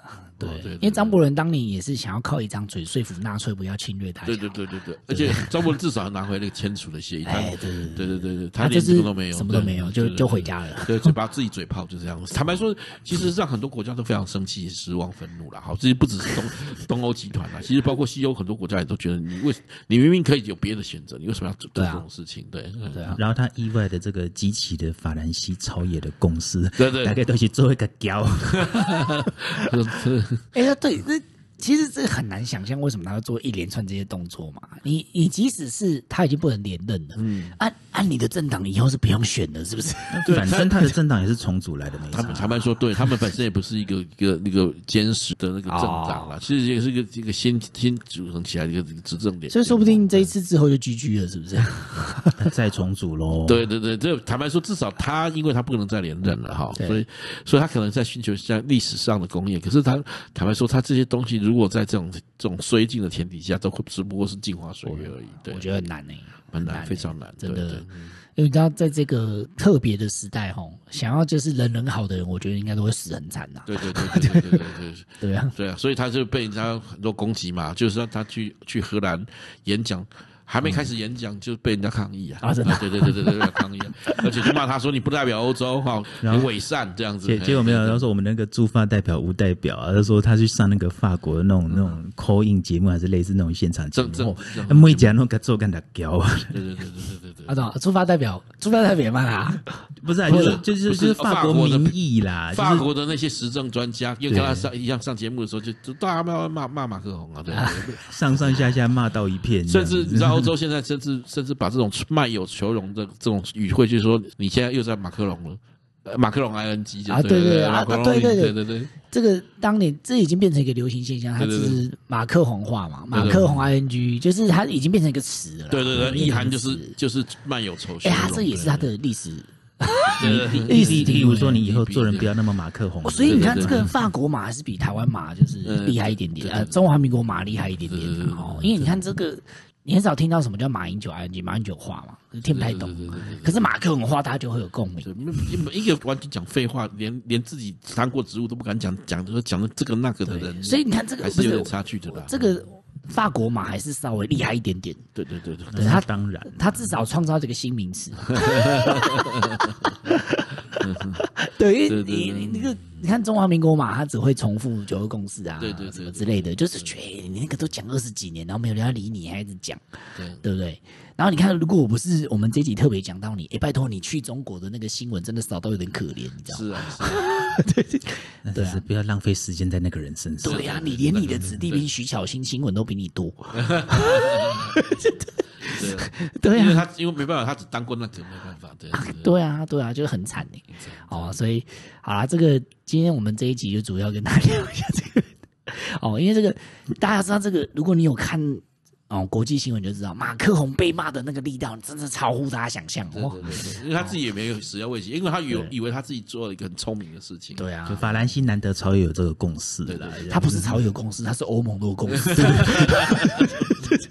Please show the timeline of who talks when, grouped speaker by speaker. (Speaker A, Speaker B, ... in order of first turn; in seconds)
Speaker A: 0.4-4.5, 5.1-5.5, 7.2-11.1, 21.8-22.0, 22.9-23.2, 30.5-40.4, 45.7-46.3, 49.5-52.4, 56.8-57.0, 64.8-67.8, 68.3-74.6, 75.2-75.5, 82.4-84.3, 97.5-100.6, 107.5-107.9, 117.1-127.0, 128.0-131.6, 133.0-145.6, 150.2-155.0, 155.8-178.8, 180.4-186.8, 188.9-204.2, 207.5-208.1, 210.3-214.0
Speaker B: 0.4-1.2, 4.2-23.2, 26.8-27.2, 28.5-30.4, 37.1-37.5, 40.2-40.9, 42.1-50.3, 53.4-65.8, 66.5-68.2, 73.7-88.0, 93.9-95.2, 96.5-97.5, 100.3-102.0, 102.5-108.7, 109.7-118.9, 121.4-121.8, 123.1-123.7, 125.7-128.9, 130.1-132.4, 133.2-133.9, 135.6-136.8, 137.8-139.0, 142.5-143.7, 145.0-152.4, 155.2-155.9, 158.3-160.0, 160.7-161.2, 161.8-163.0, 165.6-166.9, 170.1-170.4, 176.5-177.4, 180.4-181.8, 183.5-184.8, 185.6-189.3, 190.7-191.4, 203.1-207.6, 209.9-210.3, 212.1-213.4
Speaker C: 23.1-29.3, 40.1-42.6, 52.4-53.7, 86.2-86.5, 87.2-96.6, 100.0-102.9, 104.3-104.7, 108.0-110.5, 130.2-133.9, 155.7-156.8, 178.4-181.0, 207.9-210.8